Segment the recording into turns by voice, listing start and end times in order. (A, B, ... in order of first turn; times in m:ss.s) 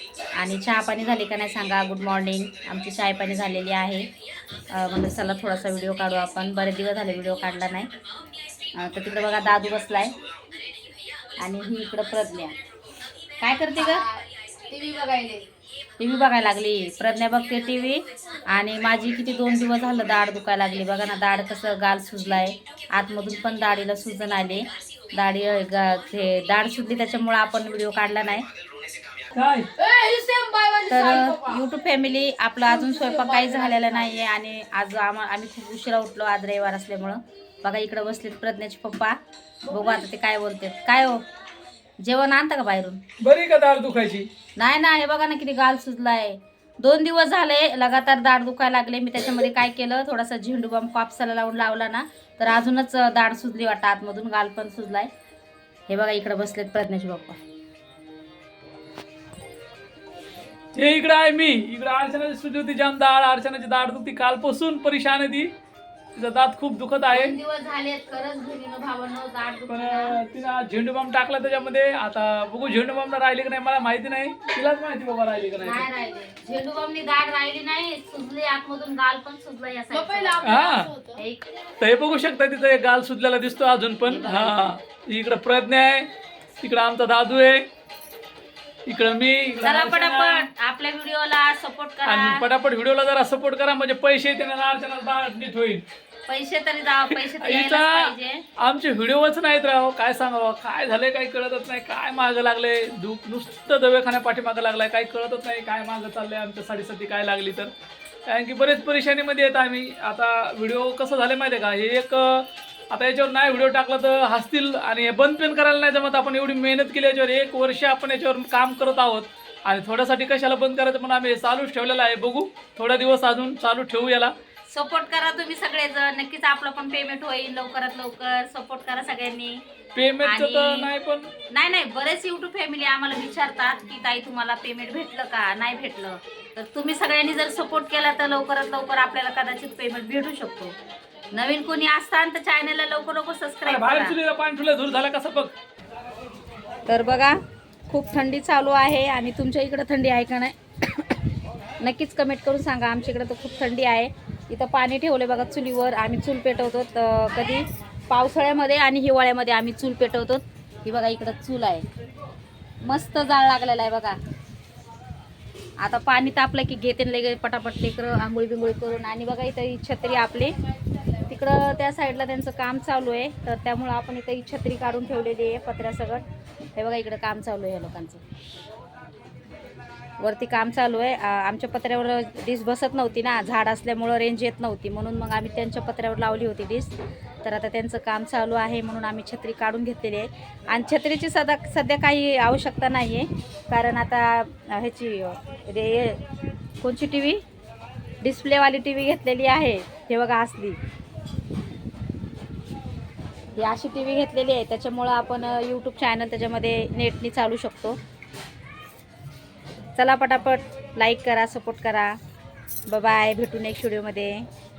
0:00.4-0:04.1 A
0:04.7-0:07.9 A
0:08.7-0:10.1 A
0:11.4-0:12.6 A
0:13.4-0:14.1 A
0:13.7-0:15.5 B
0:16.0-0:28.4 A
0:29.3-0:29.7 C
0:29.8-0:31.6 B
0:30.9-0:39.2 A
0:32.7-0:34.1 B
0:39.7-0:41.2 A
0:42.0-0:43.0 A
0:43.2-0:44.3 C
0:44.6-0:55.1 A
0:55.9-0:57.4 A
1:00.8-1:05.5 C
1:06.2-1:07.4 C
1:07.1-1:10.2 A
1:09.7-1:15.9 C
1:15.6-1:21.4 A
1:19.9-1:21.2 B
1:20.4-1:20.9 C
1:21.8-1:26.1 C
1:24.0-1:24.7 A
1:26.6-1:27.6 C
1:28.9-1:30.5 C
1:29.6-1:32.4 A
1:32.0-1:35.8 C
1:36.3-1:38.4 A
1:37.1-1:47.7 C
1:48.3-2:04.3 C
2:04.7-2:09.6 A
2:09.9-2:11.3 C
2:10.2-2:10.9 A
2:11.5-2:20.8 A
2:21.3-2:24.2 A
2:23.6-2:25.5 C
2:26.9-2:27.3 A
2:27.9-2:31.1 A
2:31.8-2:41.8 A
2:42.8-2:44.2 A
2:45.8-2:50.5 A
2:51.2-2:56.2 A
2:56.8-2:58.2 A
3:00.2-3:16.2 A
3:16.8-3:17.4 A
3:18.2-3:20.8 A
3:23.6-3:28.0 A
3:30.0-3:32.1 A
3:32.9-3:34.4 A